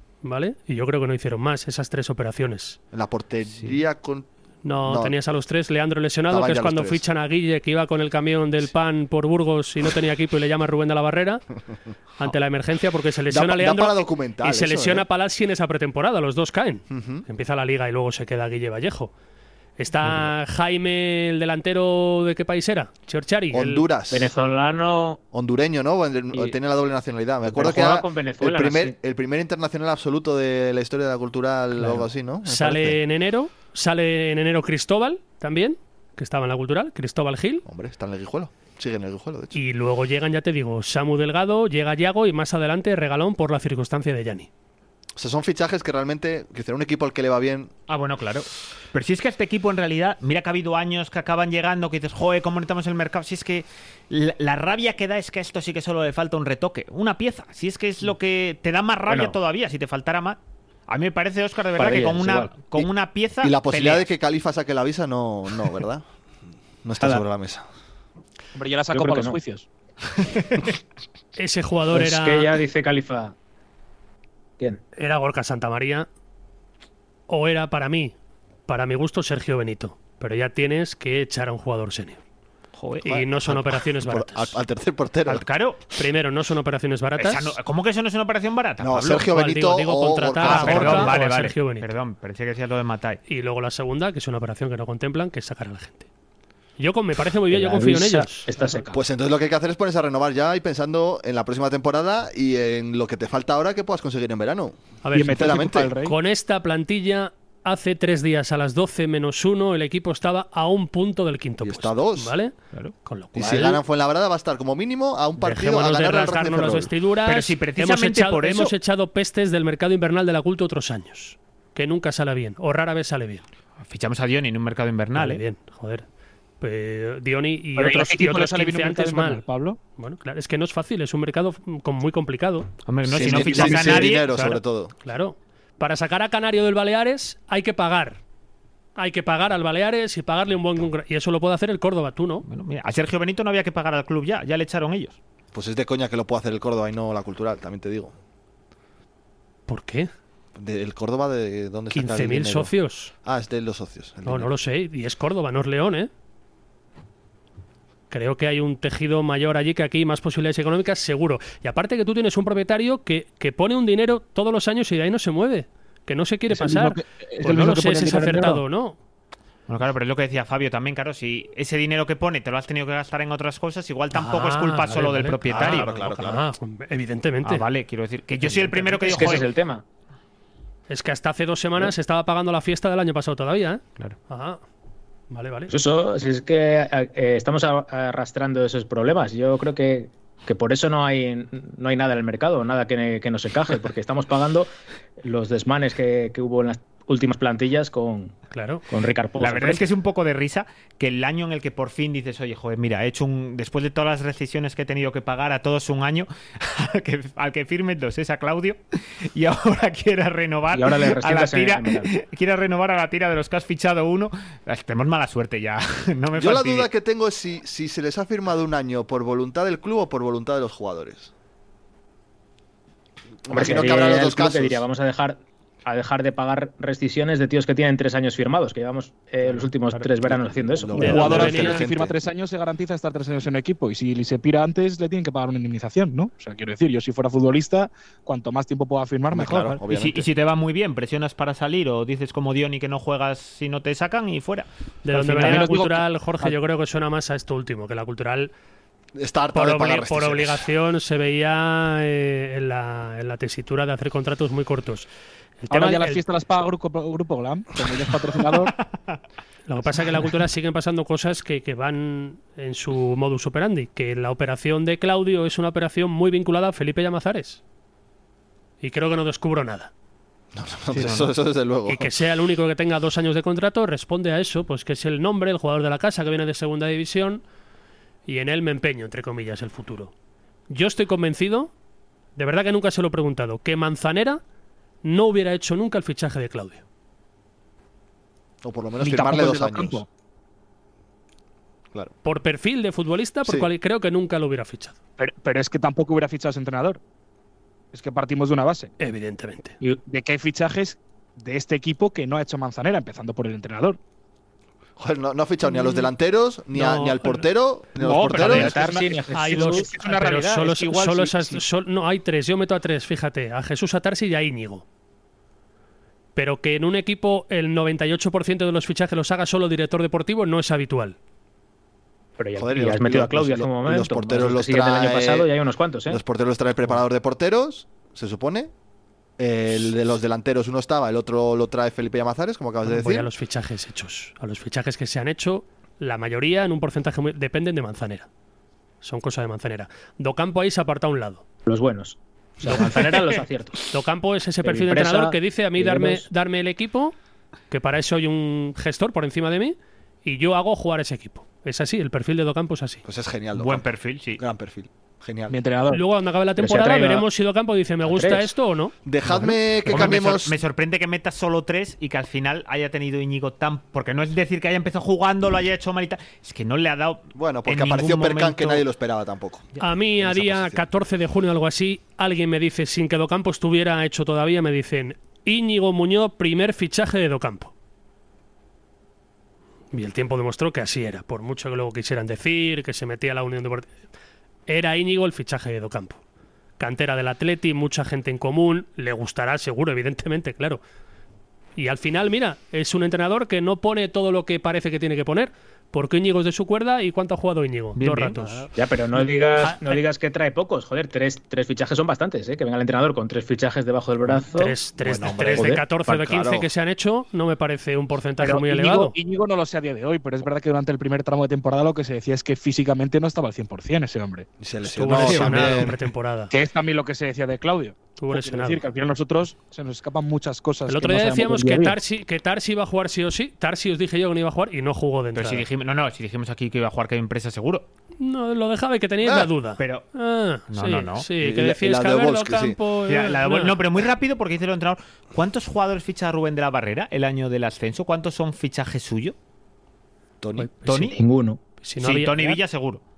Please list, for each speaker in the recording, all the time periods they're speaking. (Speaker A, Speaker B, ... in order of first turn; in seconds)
Speaker A: 0.2-2.8, 4.6-11.4, 12.2-19.1, 19.8-23.9, 31.8-37.6, 39.5-44.5, 71.4-72.5, 75.0-76.1, 77.3-78.1, 78.7-82.2, 83.0-84.6, 86.0-87.5, 89.3-91.9, 93.3-96.0, 96.8-98.5, 105.0-112.5, 113.0-113.8, 115.4-123.4, 125.1-126.0, 126.6-129.4, 129.9-132.7, 135.0-138.2, 138.9-142.4, 149.7-150.1, 151.9-153.1, 154.2-156.1, 158.1-169.0, 174.1-177.6, 180.9-184.6, 185.3-185.7, 198.5-198.8, 231.0-231.8, 245.0-248.5, 249.5-255.1, 255.6-256.2, 259.7-267.6, 268.8-269.9, 271.9-277.4, 278.3-280.1, 280.7-281.7, 282.4-284.4, 285.0-286.8, 292.2-294.9, 299.0-299.8, 305.6-306.1, 306.7-307.4, 308.4-308.7, 309.3-314.8, 316.4-321.1, 332.8-338.3, 339.0-341.4, 342.6-343.1, 343.9-347.1, 347.7-353.0, 355.9-358.9, 369.8-377.7, 379.9-383.9, 384.7-386.2, 386.8-390.8, 391.8-398.7, 399.6-400.0, 404.5-409.1, 414.8-416.5, 418.2-418.8, 420.9-425.6, 428.2-433.8, 440.6-441.2, 441.8-442.6
Speaker B: 2.9-4.3, 4.8-5.1, 6.3-7.0, 13.3-15.1, 16.9-17.2, 23.5-24.3, 25.3-33.0, 37.6-39.5, 45.2-47.7, 63.4-66.0, 66.8-67.6, 83.0-85.5, 88.8-91.2, 98.9-104.7, 105.3-105.9, 111.6-112.3, 113.3-116.9, 133.1-134.9, 145.5-148.1, 150.6-152.7, 153.2-154.5, 175.5-176.4, 216.3-221.3, 223.4-224.8, 230.8-232.2, 239.3-240.3, 249.2-250.6, 270.5-272.1, 288.6-290.0, 305.0-308.8, 322.6-325.5, 326.1-328.7, 329.4-333.3, 353.0-355.6, 359.1-360.6, 367.3-370.9, 404.9-406.7, 414.6-416.0, 429.2-429.5, 431.4-432.8, 440.4-440.7
Speaker C: 24.1-25.2, 27.4-28.9, 59.1-59.4, 61.8-62.8, 68.9-69.4, 71.9-73.3, 97.5-99.0, 178.7-179.8, 185.7-194.7, 195.2-198.4, 198.9-199.8, 210.7-212.1, 223.5-231.4, 308.4-309.9, 322.4-326.2, 341.7-343.8, 344.6-346.3, 356.6-357.3, 358.1-358.5, 398.8-404.8, 405.5-405.9, 441.1-441.6
Speaker D: 47.9-64.1, 70.2-70.6, 82.8-83.1, 85.2-85.8, 87.2-89.3, 90.4-93.2, 117.2-118.7, 123.8-125.4, 132.8-134.6, 142.4-145.2, 169.7-175.9, 177.4-179.5, 199.4-216.9, 239.9-244.7, 245.2-245.7, 270.9-271.3, 353.5-354.4, 359.8-368.8, 397.9-398.6, 425.4-427.9, 429.8-430.1, 430.7-431.3, 433.1-439.3, 440.8-441.2, 442.0-443.0
Speaker E: 68.5-69.6, 105.1-106.2, 127.8-129.8, 133.1-134.2, 166.5-168.6, 231.0-239.8, 245.2-246.5, 255.7-258.7, 289.0-290.1, 295.2-297.0, 297.9-298.9, 300.0-304.0, 308.0-311.6, 355.5-356.0, 408.4-414.5, 415.1-415.8, 416.5-422.0